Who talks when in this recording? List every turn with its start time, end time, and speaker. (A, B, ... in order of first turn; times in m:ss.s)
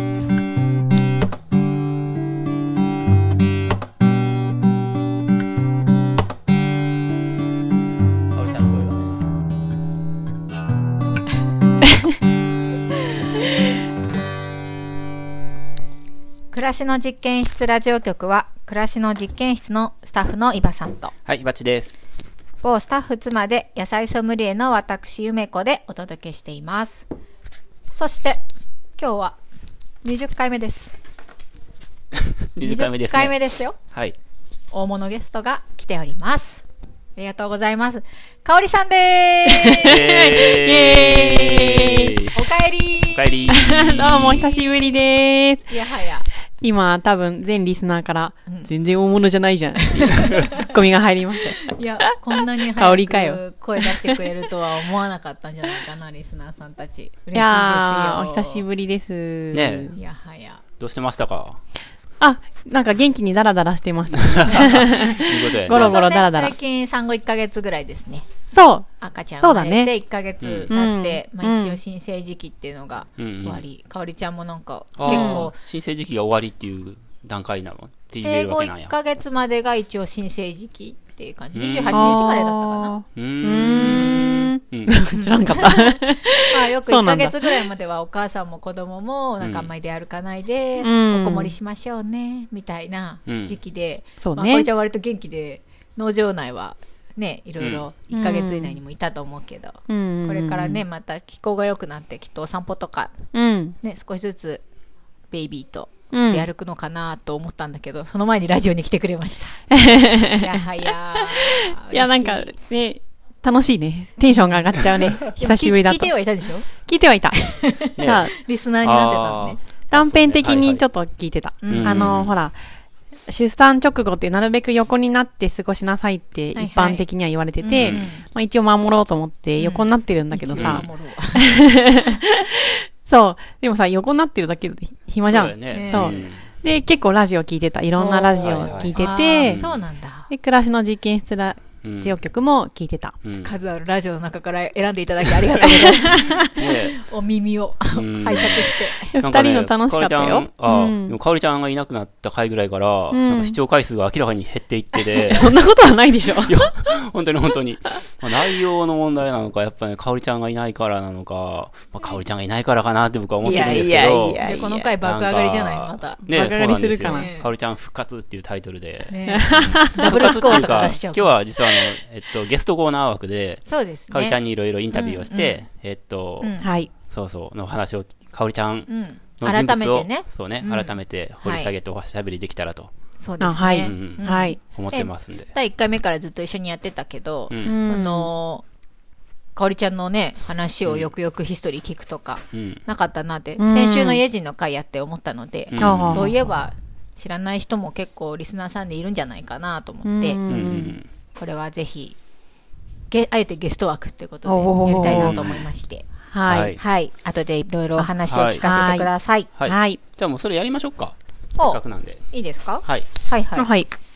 0:08.3-0:09.1 A
0:16.5-0:21.1 B
0:21.3-0:22.0 A
0:22.6-0:27.1 B
0:27.9-0:28.4 B
0:29.0-0:29.4 B
0:30.0-0:31.0 B
0:32.5-0:33.3 A
0:32.6-0:33.8 B
0:33.9-0:34.2 A
0:34.7-0:36.6 B
0:37.2-0:40.0 B
0:39.7-0:42.2 C
0:39.8-0:42.4 A
0:42.3-0:45.0 B
0:43.1-0:44.5 A
0:43.5-0:45.7 C
0:45.7-0:46.3 B
0:46.6-0:52.1 C
0:49.9-0:50.6 B
0:51.7-0:58.6 B
0:52.7-0:54.2 C
0:57.3-1:00.0 C
0:59.5-1:00.0 A
1:00.0-1:00.6 B
1:00.8-1:01.6 A
1:02.2-1:06.6 C
1:04.2-1:06.1 A
1:04.6-1:05.1 B
1:05.7-1:08.3 B
1:08.5-1:09.9 C
1:09.0-1:15.6 B
1:10.4-1:10.7 A
1:10.7-1:11.8 C
1:13.2-1:13.6 A
1:15.0-1:18.9 A
1:15.0-1:15.5 C
1:18.1-1:23.0 B
1:21.5-1:22.3 A
1:21.9-1:27.7 C
1:23.2-1:24.9 A
1:25.1-1:43.2 B
1:29.4-1:29.7 A
1:30.8-1:31.6 C
1:33.3-1:33.6 A
1:34.2-1:34.7 C
1:37.6-1:37.9 A
1:38.1-1:38.8 C
1:39.9-1:40.8 C
1:43.3-1:43.8 C
1:43.8-1:44.6 B
1:45.3-1:52.5 B
1:46.1-1:46.5 C
1:49.7-1:56.1 C
1:54.3-1:54.7 B
1:55.3-1:56.7 B
1:56.7-1:58.3 C
1:57.3-1:59.6 B
1:58.0-1:58.3 A
1:58.8-2:00.8 A
1:59.9-2:02.6 C
2:01.6-2:02.2 B
2:01.7-2:02.4 A
2:03.3-2:19.6 C
2:06.6-2:07.1 B
2:07.6-2:08.2 B
2:07.7-2:08.0 A
2:09.6-2:12.2 B
2:10.6-2:10.9 A
2:15.2-2:16.5 A
2:15.7-2:16.2 B
2:18.0-2:20.3 B
2:18.4-2:19.7 A
2:20.3-2:23.2 C
2:21.8-2:22.2 A
2:23.2-2:23.6 A
2:23.4-2:29.2 B
2:26.0-2:26.5 C
2:26.6-2:27.0 A
2:27.9-2:35.6 A
2:29.0-2:31.2 C
2:33.1-2:33.6 C
2:35.2-2:36.9 C
2:36.3-2:58.9 A
2:43.4-2:44.9 C
2:44.4-2:46.2 B
2:46.2-2:47.3 C
2:47.0-2:47.5 B
2:49.1-2:51.9 B
2:49.3-2:50.8 C
2:53.7-2:54.4 B
2:54.9-2:55.6 B
2:56.4-2:56.7 B
2:56.6-2:56.9 C
2:58.9-3:01.7 B
2:59.4-3:02.9 A
3:03.2-3:08.6 B
3:03.4-3:04.6 C
3:03.8-3:05.5 A
3:07.5-3:07.8 A
3:07.6-3:08.3 C
3:09.6-3:20.4 B
3:12.5-3:12.8 A
3:13.6-3:14.2 C
3:15.7-3:16.3 A
3:15.8-3:16.3 C
3:20.0-3:21.0 C
3:20.5-3:21.1 A
3:21.4-3:22.2 B
3:23.1-3:26.1 B
3:24.4-3:25.4 C
3:25.1-3:25.7 A
3:26.3-3:26.8 C
3:26.5-3:26.8 A
3:26.8-3:29.5 B
3:28.0-3:30.0 C
3:28.3-3:28.7 A
3:29.6-3:32.3 A
3:31.6-3:33.7 B
3:32.8-3:33.1 A
3:33.6-3:33.9 C